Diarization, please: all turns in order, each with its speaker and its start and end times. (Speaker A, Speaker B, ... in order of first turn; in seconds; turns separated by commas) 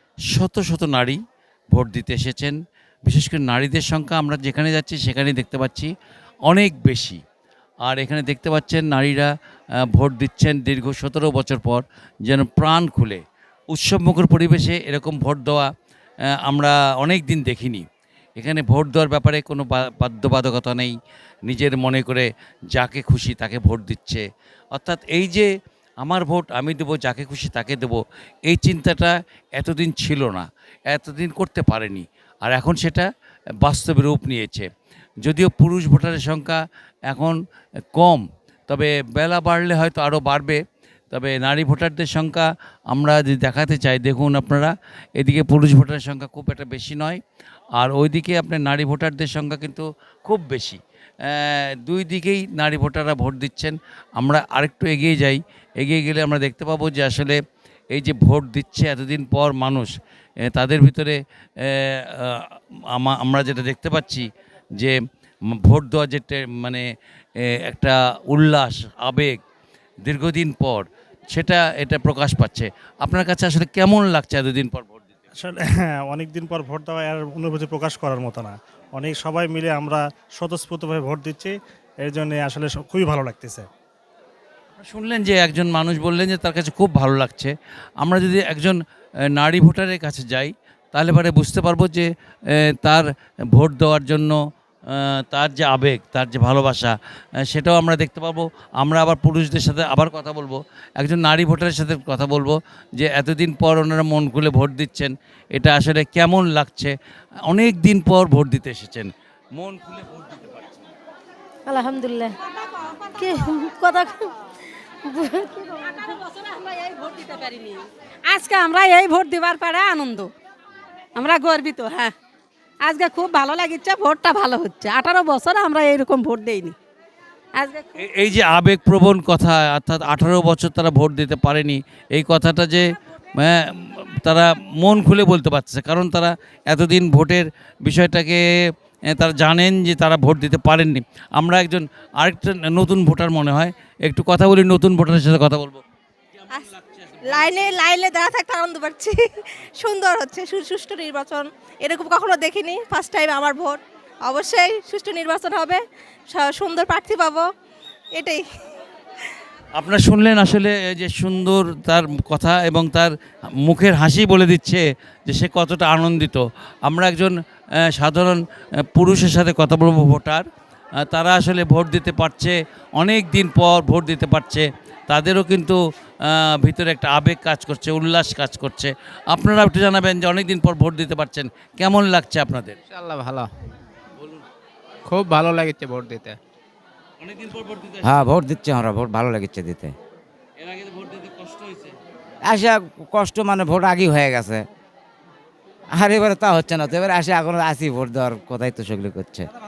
Speaker A: 0.3-1.2, Speaker A: 1.7-5.9, Speaker A: 6.5-7.2, Speaker A: 7.8-9.3, Speaker A: 9.9-15.7, Speaker A: 16.4-17.9, Speaker A: 18.4-20.9, Speaker A: 21.5-25.5, Speaker A: 26.0-33.1, Speaker A: 33.6-34.7, Speaker A: 35.2-37.4, Speaker A: 37.9-47.2, Speaker A: 47.8-57.4, Speaker A: 57.9-59.9, Speaker A: 60.5-66.9, Speaker A: 67.4-69.4, Speaker A: 70.0-75.1, Speaker B: 75.3-83.7, Speaker A: 84.8-88.8, Speaker A: 89.3-94.4, Speaker A: 94.9-97.0, Speaker A: 97.5-110.8, Speaker C: 111.7-112.4, Speaker C: 113.2-114.3, Speaker C: 115.0-116.1, Speaker D: 116.1-120.3, Speaker D: 121.2-122.1, Speaker D: 122.8-126.8, Speaker D: 127.6-127.9, Speaker A: 128.0-138.4, Speaker A: 139.1-145.8, Speaker A: 146.8-147.4, Speaker C: 147.3-157.5, Speaker C: 158.2-158.4, Speaker A: 159.8-170.5, Speaker A: 171.0-182.8, Speaker E: 182.9-183.5, Speaker E: 185.1-186.4, Speaker A: 187.2-188.2, Speaker F: 188.0-190.0, Speaker A: 190.6-191.9, Speaker F: 192.4-194.7, Speaker F: 195.9-199.5